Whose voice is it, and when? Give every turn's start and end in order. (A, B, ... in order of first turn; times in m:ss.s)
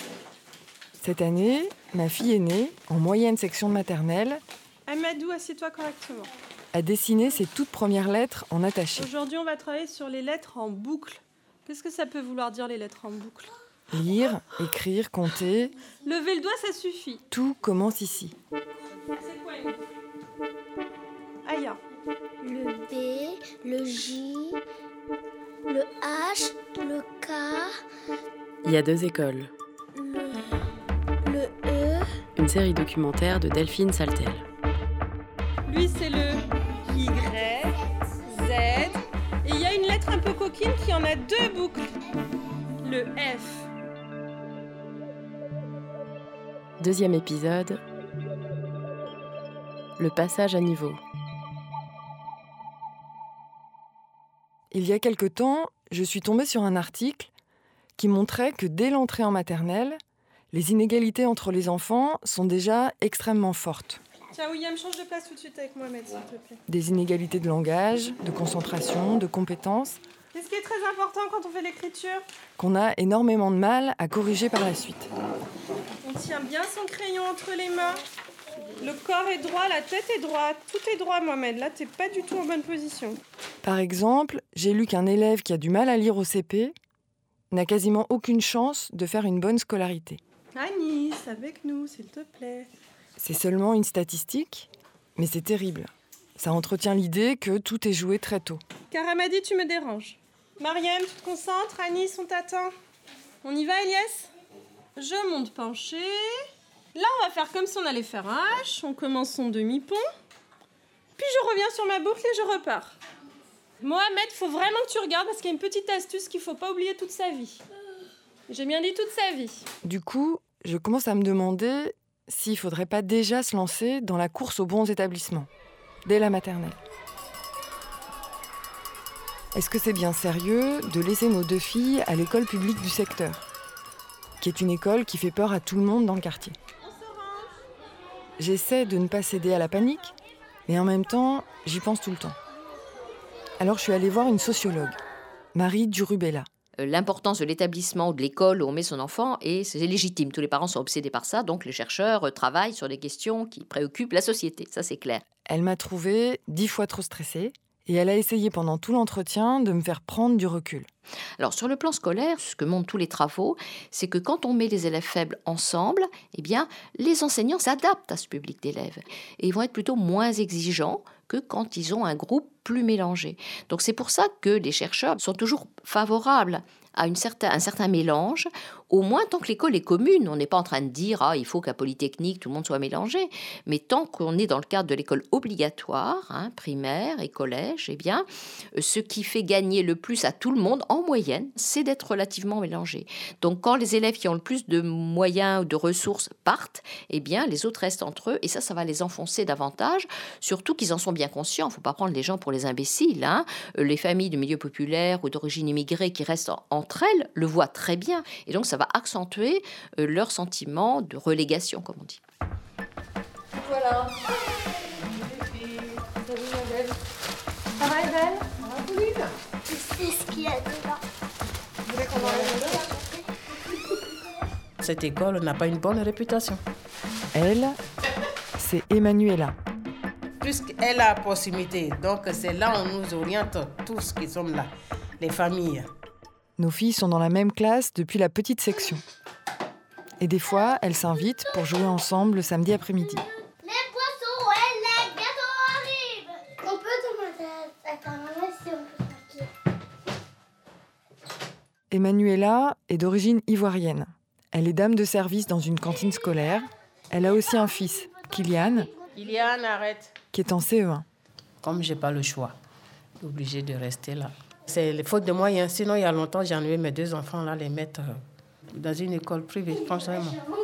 0:01.0-0:04.4 A
0:04.9-0:06.3 B
0:06.7-0:09.1 A
0:09.0-0:13.5 B
0:13.9-0:15.7 A
0:16.0-0:17.2 B
0:17.3-0:18.4 A
0:19.2-0:19.9 B
0:21.4-0:21.8 B
0:22.4-0:24.6 C
0:25.7-0:27.7 C
0:28.6-0:29.5 D
0:30.0-0:30.4 C
0:31.2-0:32.0 C
0:32.4-0:34.4 D
0:35.7-0:42.0 B
0:42.8-0:43.7 B
0:46.8-0:47.8 D
0:50.0-0:51.0 D
0:54.7-0:57.3 A
0:58.0-1:00.0 A
1:00.5-1:04.0 A
1:04.3-1:06.6 B
1:06.7-1:10.0 A
1:10.3-1:12.2 B
1:12.6-1:15.1 A
1:16.0-1:18.0 B
1:18.8-1:23.2 B
1:23.6-1:26.7 A
1:27.5-1:30.2 A
1:30.5-1:32.7 B
1:33.2-1:38.6 A
1:38.9-1:42.7 B
1:43.4-1:44.3 B
1:45.0-1:50.1 B
1:51.2-1:53.0 B
1:53.8-1:57.6 B
1:58.5-1:59.6 B
1:59.8-2:05.5 A
2:06.0-2:06.8 A
2:09.5-2:13.5 A
2:14.4-2:16.6 A
2:16.8-2:17.5 B
2:18.4-2:20.1 A
2:20.7-2:22.4 A
2:23.6-2:25.0 A
2:25.5-2:26.4 A
2:26.8-2:35.2 E
2:35.4-2:40.9 A
2:41.4-3:32.2 E
3:33.6-3:34.1 B
3:35.2-3:36.0 F
3:37.8-3:38.5 B
3:38.6-3:39.3 F
3:39.7-3:41.0 C
3:41.9-3:42.7 B
3:42.2-3:42.4 F
3:44.8-3:46.6 F
3:47.3-3:47.7 A
3:48.6-3:49.6 A
3:50.4-3:55.9 F
3:56.6-3:59.0 A
4:00.2-4:03.2 A
4:03.6-4:09.5 C
4:11.9-4:18.9 A
4:19.1-4:20.1 F
4:20.3-4:21.1 A
4:21.6-4:22.5 F
4:23.2-4:28.1 F
4:28.7-4:30.4 F